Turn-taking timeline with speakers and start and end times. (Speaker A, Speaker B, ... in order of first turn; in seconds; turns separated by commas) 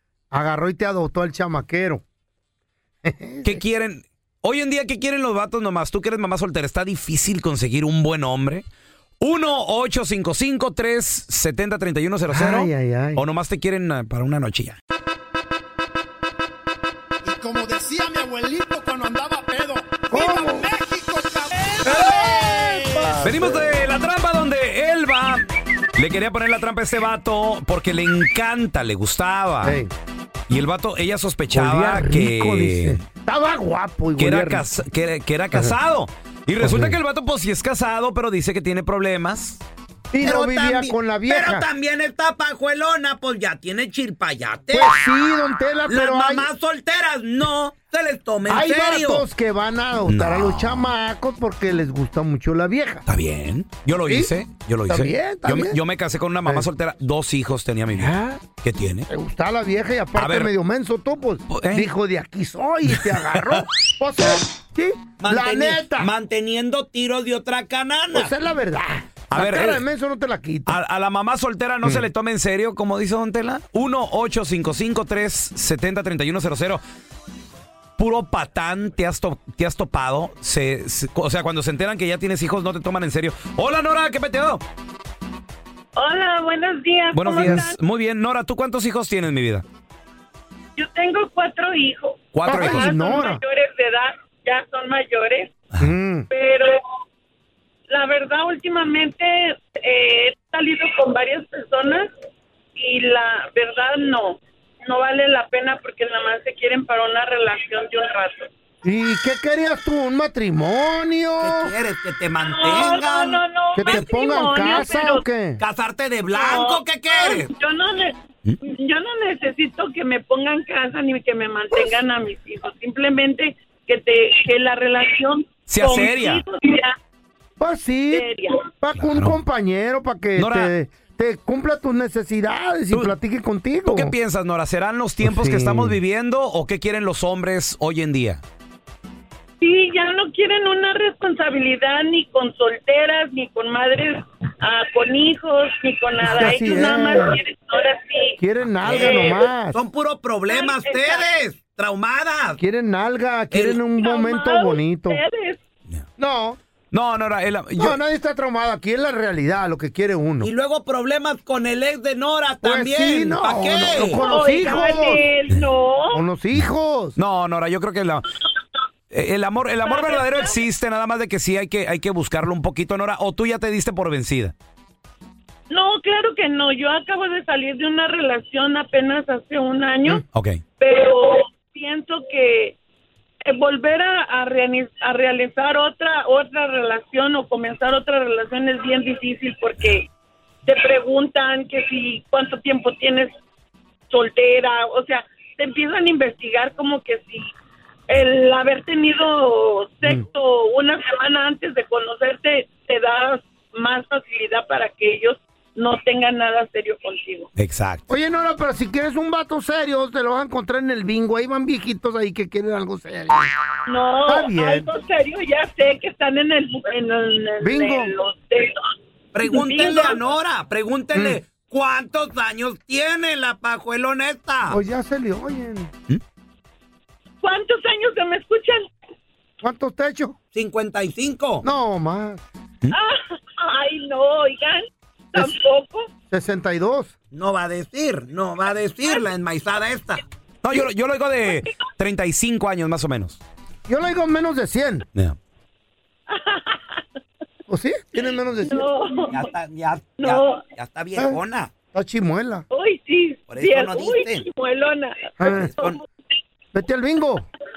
Speaker A: 0.3-2.0, Speaker A: 3.0-3.6, Speaker B: 3.4-8.7, Speaker B: 9.2-14.8, Speaker A: 12.3-13.2, Speaker C: 17.2-23.2, Speaker A: 20.1-20.7, Speaker A: 21.9-23.8, Speaker B: 23.2-25.4, Speaker B: 26.0-29.8, Speaker A: 29.6-29.9, Speaker B: 30.5-33.0, Speaker A: 31.5-34.7, Speaker B: 34.2-39.6, Speaker A: 36.6-37.0, Speaker A: 40.1-41.7, Speaker D: 40.2-45.0, Speaker A: 44.7-46.5, Speaker D: 45.9-49.3, Speaker A: 48.5-53.0, Speaker B: 50.1-50.9, Speaker B: 53.1-59.1, Speaker A: 54.9-55.8, Speaker A: 57.9-58.4, Speaker A: 59.1-66.1, Speaker B: 60.2-60.5, Speaker B: 61.5-61.9, Speaker D: 65.2-68.3, Speaker A: 68.1-70.8, Speaker B: 69.3-69.8, Speaker B: 70.7-76.8, Speaker B: 78.0-84.6, Speaker E: 86.0-87.8, Speaker B: 87.1-89.7, Speaker E: 90.8-95.6, Speaker B: 92.3-92.9, Speaker A: 92.5-93.4, Speaker A: 95.8-96.3, Speaker E: 96.3-96.8, Speaker E: 97.9-102.1, Speaker E: 102.8-108.5, Speaker A: 108.8-111.7, Speaker D: 111.4-114.2, Speaker E: 112.5-115.2, Speaker A: 113.8-115.6, Speaker D: 115.6-117.5, Speaker E: 116.3-127.0, Speaker B: 125.7-126.4, Speaker A: 127.6-128.3, Speaker E: 128.1-128.7, Speaker A: 128.8-134.1, Speaker B: 129.0-129.4, Speaker B: 130.4-130.7, Speaker B: 133.9-138.4, Speaker A: 135.2-136.0, Speaker E: 139.6-148.4, Speaker A: 146.2-147.4, Speaker A: 148.4-149.8, Speaker D: 148.9-152.6, Speaker E: 148.9-149.5, Speaker E: 150.5-151.2, Speaker A: 152.6-155.2, Speaker D: 153.5-153.8, Speaker E: 153.9-155.6, Speaker A: 156.2-156.6, Speaker B: 156.9-158.0, Speaker A: 157.8-160.5, Speaker D: 160.4-164.2, Speaker A: 162.6-165.2, Speaker E: 164.1-166.2, Speaker A: 166.1-167.2, Speaker B: 167.2-168.3, Speaker B: 169.1-174.5, Speaker E: 169.8-170.6, Speaker E: 175.7-180.2, Speaker B: 180.3-180.6, Speaker E: 180.8-182.8, Speaker E: 183.5-190.1, Speaker E: 190.7-193.3, Speaker E: 194.1-197.5, Speaker E: 198.1-207.5, Speaker B: 207.6-208.1, Speaker A: 208.1-213.5, Speaker E: 213.9-218.8, Speaker A: 214.2-214.9, Speaker A: 217.6-218.1, Speaker D: 219.3-224.8, Speaker E: 219.5-220.2, Speaker A: 221.1-221.4, Speaker A: 224.7-225.9, Speaker E: 227.4-228.9, Speaker A: 229.6-230.4, Speaker D: 230.5-231.7, Speaker A: 231.6-232.4, Speaker E: 232.9-236.1, Speaker A: 236.3-237.1, Speaker D: 237.3-240.2, Speaker B: 240.6-243.4, Speaker A: 243.9-245.1, Speaker E: 246.3-247.0, Speaker A: 247.7-248.9, Speaker E: 248.7-249.4, Speaker D: 249.3-251.7, Speaker E: 250.2-250.7, Speaker A: 251.9-252.7, Speaker E: 252.7-256.0, Speaker D: 253.5-254.4, Speaker A: 255.4-255.7, Speaker D: 255.4-256.0, Speaker A: 256.7-257.5